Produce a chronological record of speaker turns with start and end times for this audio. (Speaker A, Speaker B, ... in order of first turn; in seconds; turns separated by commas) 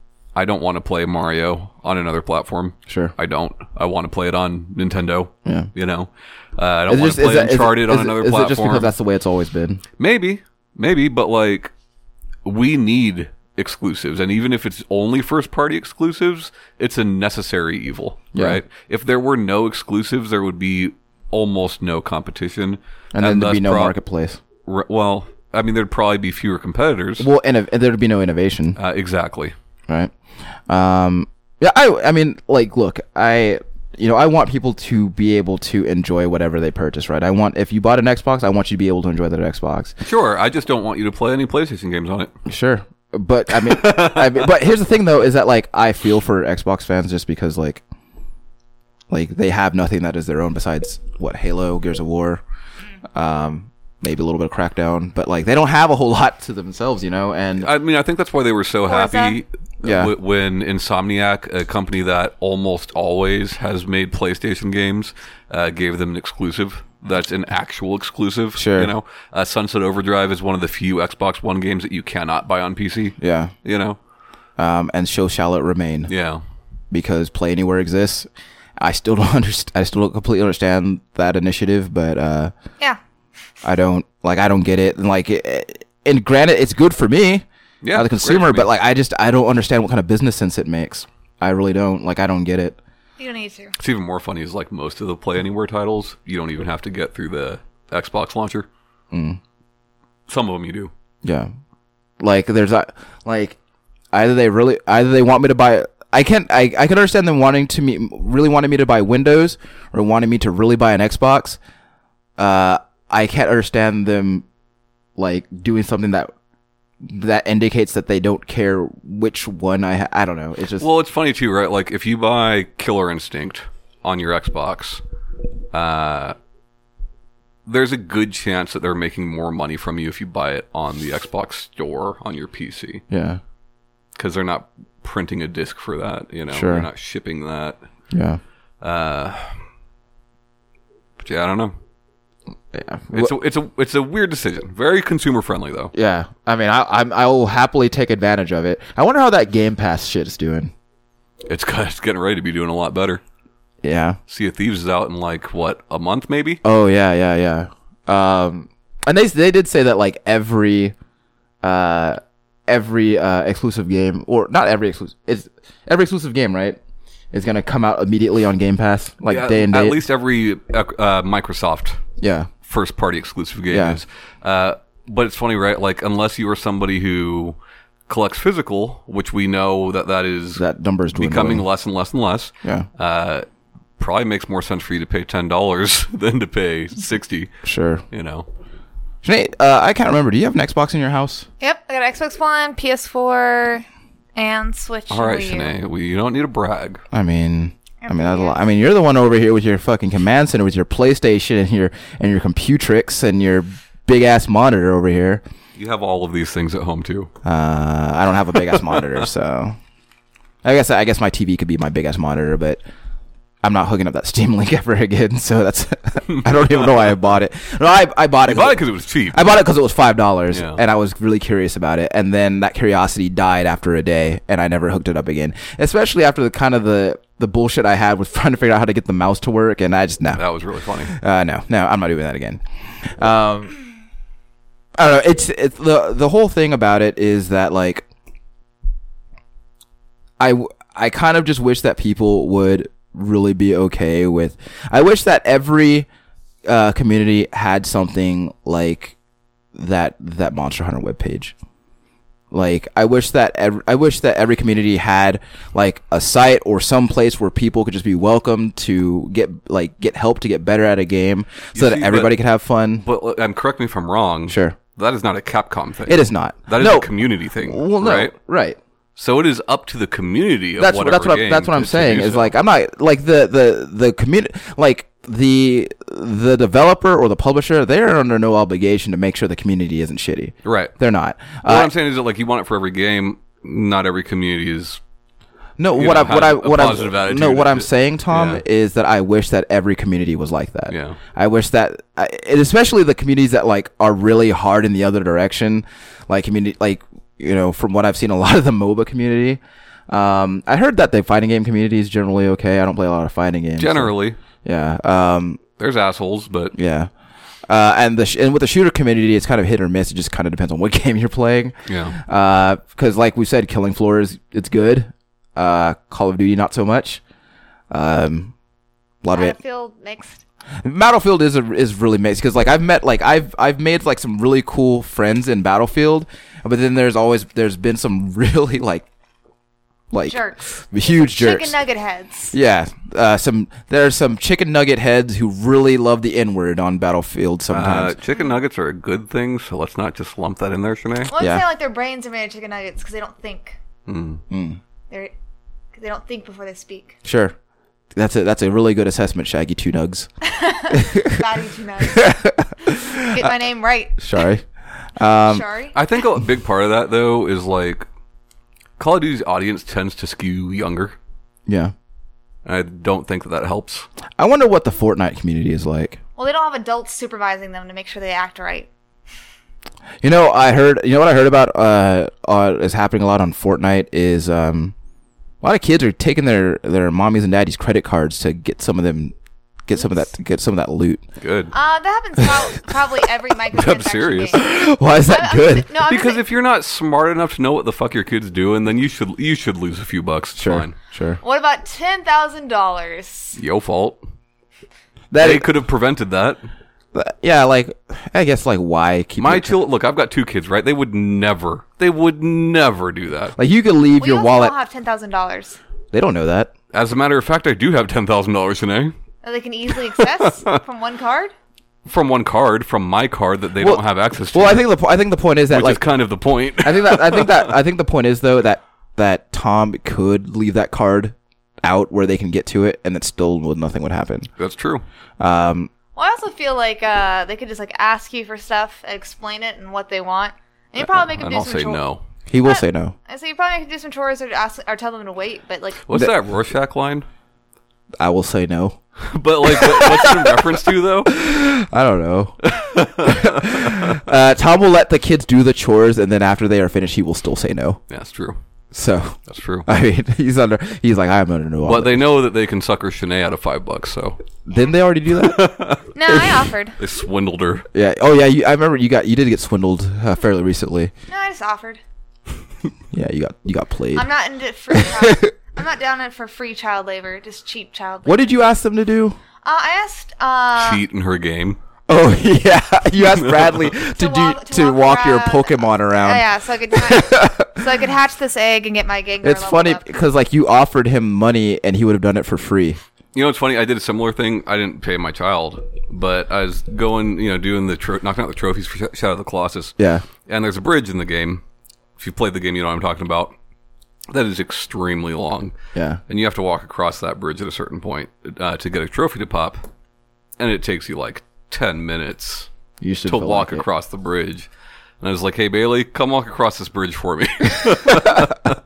Speaker A: 0.3-8.9, Speaker B: 2.9-3.1, Speaker B: 6.9-9.8, Speaker A: 10.0-11.7, Speaker A: 12.4-23.9, Speaker B: 18.3-18.6, Speaker B: 23.1-24.4, Speaker A: 24.6-27.3, Speaker B: 27.2-28.8, Speaker A: 28.8-29.5, Speaker B: 29.9-30.1, Speaker B: 30.7-39.9, Speaker A: 40.0-42.3, Speaker B: 42.5-47.8, Speaker A: 43.5-44.5, Speaker B: 49.1-52.4, Speaker B: 53.1-57.7, Speaker A: 57.6-74.0, Speaker C: 58.9-59.4, Speaker B: 59.8-60.1, Speaker B: 68.5-68.9, Speaker B: 73.2-73.5, Speaker B: 74.6-76.1, Speaker A: 76.1-76.4, Speaker B: 76.9-78.3, Speaker B: 78.8-82.5, Speaker B: 83.6-92.8, Speaker A: 87.8-88.7, Speaker C: 93.2-93.7, Speaker A: 93.8-98.7, Speaker B: 99.1-99.4, Speaker A: 100.3-100.9, Speaker B: 101.2-101.5, Speaker B: 102.2-103.6, Speaker B: 104.1-111.6, Speaker B: 112.4-114.4, Speaker B: 115.2-116.3, Speaker B: 117.0-120.9, Speaker A: 120.8-125.0, Speaker A: 125.7-126.3, Speaker A: 127.7-133.0, Speaker B: 133.1-133.4, Speaker A: 134.2-137.8, Speaker B: 136.5-136.9, Speaker B: 138.1-138.4, Speaker A: 138.8-139.6, Speaker A: 141.2-141.7, Speaker B: 142.7-143.3, Speaker A: 143.1-145.9, Speaker B: 145.9-150.7, Speaker A: 151.4-153.2, Speaker B: 153.8-154.2, Speaker A: 154.3-156.6, Speaker B: 156.6-160.9, Speaker B: 161.6-166.8, Speaker B: 167.3-170.0, Speaker A: 169.3-172.0, Speaker B: 172.2-172.5, Speaker A: 172.7-177.6, Speaker B: 173.7-174.0, Speaker A: 178.1-180.6, Speaker B: 180.6-181.6, Speaker A: 181.1-183.4, Speaker A: 184.0-187.5, Speaker B: 187.6-188.0, Speaker A: 188.1-188.4, Speaker B: 189.2-191.5, Speaker C: 191.6-193.8, Speaker C: 194.3-195.7, Speaker A: 195.1-197.0, Speaker B: 197.1-205.4, Speaker C: 198.0-198.6, Speaker A: 205.8-207.3, Speaker B: 207.4-209.8, Speaker A: 208.7-209.1, Speaker B: 210.6-212.8, Speaker B: 213.6-230.4, Speaker A: 216.3-216.9, Speaker A: 218.4-219.6, Speaker A: 220.5-220.8, Speaker A: 230.3-231.1, Speaker B: 231.1-233.8, Speaker B: 235.0-238.1, Speaker B: 240.4-246.1, Speaker B: 246.7-249.1, Speaker B: 249.7-251.5, Speaker B: 252.5-263.0, Speaker A: 261.7-262.3, Speaker A: 263.0-268.3, Speaker B: 264.5-264.8, Speaker B: 266.1-268.8, Speaker A: 269.2-272.5, Speaker B: 270.8-281.9, Speaker A: 280.6-280.9, Speaker A: 281.6-285.0, Speaker B: 285.8-304.1, Speaker A: 285.9-288.6, Speaker A: 290.9-291.2, Speaker A: 303.8-304.4, Speaker B: 304.6-305.6, Speaker A: 305.8-306.7, Speaker B: 306.7-307.1, Speaker B: 307.7-317.2, Speaker A: 311.9-312.2, Speaker B: 317.9-318.5, Speaker B: 319.2-319.6, Speaker C: 319.3-320.4, Speaker B: 320.8-329.1, Speaker B: 330.1-331.8, Speaker C: 330.2-332.5, Speaker B: 332.5-338.1, Speaker A: 337.7-341.3, Speaker C: 341.3-343.8, Speaker B: 341.4-341.6, Speaker A: 344.1-344.4, Speaker B: 344.5-344.8, Speaker C: 345.9-347.1, Speaker B: 347.2-347.5, Speaker B: 348.1-350.3, Speaker C: 350.4-352.4, Speaker B: 350.9-351.4, Speaker B: 352.0-353.5, Speaker C: 352.9-354.4, Speaker B: 354.2-354.6, Speaker B: 355.1-355.6, Speaker C: 355.4-355.9, Speaker A: 355.9-358.1, Speaker A: 359.0-361.1, Speaker B: 361.7-361.9, Speaker A: 362.6-364.1, Speaker B: 364.4-366.2, Speaker C: 366.4-368.9, Speaker B: 370.2-374.9, Speaker B: 375.6-381.2, Speaker A: 381.4-381.7, Speaker C: 381.7-384.7, Speaker A: 383.7-384.6, Speaker B: 384.5-385.9, Speaker C: 385.2-386.4, Speaker A: 386.0-390.9, Speaker B: 390.6-391.4, Speaker C: 391.4-393.6, Speaker A: 393.6-394.2, Speaker B: 395.3-395.7, Speaker A: 395.4-396.6, Speaker B: 397.1-399.8, Speaker A: 399.4-403.5, Speaker B: 403.6-404.7, Speaker C: 404.2-405.8, Speaker B: 406.1-406.7, Speaker A: 406.9-409.1, Speaker C: 409.4-411.5, Speaker A: 409.9-410.8, Speaker A: 412.1-414.9, Speaker B: 413.8-416.0, Speaker A: 415.7-417.6, Speaker B: 416.8-424.5, Speaker A: 424.6-425.0, Speaker B: 425.4-425.9, Speaker C: 426.1-432.0, Speaker A: 431.0-432.2, Speaker B: 432.5-433.1, Speaker C: 432.6-436.0, Speaker A: 436.1-437.2, Speaker B: 438.2-439.0, Speaker A: 439.3-441.3, Speaker B: 439.6-448.0, Speaker A: 442.6-444.2, Speaker A: 448.1-448.6, Speaker B: 448.9-452.2, Speaker A: 449.5-449.9, Speaker A: 451.8-454.4, Speaker B: 454.6-455.6, Speaker A: 455.4-456.1, Speaker C: 456.1-457.0, Speaker B: 456.3-456.6, Speaker A: 457.0-457.9, Speaker B: 457.9-461.1, Speaker C: 461.3-462.0, Speaker B: 463.1-464.3, Speaker C: 464.1-468.4, Speaker B: 464.9-465.5, Speaker B: 468.2-469.4, Speaker C: 469.6-471.0, Speaker A: 470.8-471.8, Speaker B: 472.1-477.9, Speaker A: 473.2-473.9, Speaker C: 474.1-480.0, Speaker B: 479.4-483.0, Speaker A: 483.3-491.6, Speaker B: 490.0-490.3, Speaker A: 492.2-493.5, Speaker A: 494.3-495.7, Speaker B: 495.9-496.2, Speaker A: 496.3-499.8, Speaker A: 500.6-502.7, Speaker B: 503.0-503.8, Speaker A: 503.2-504.7, Speaker A: 505.2-508.7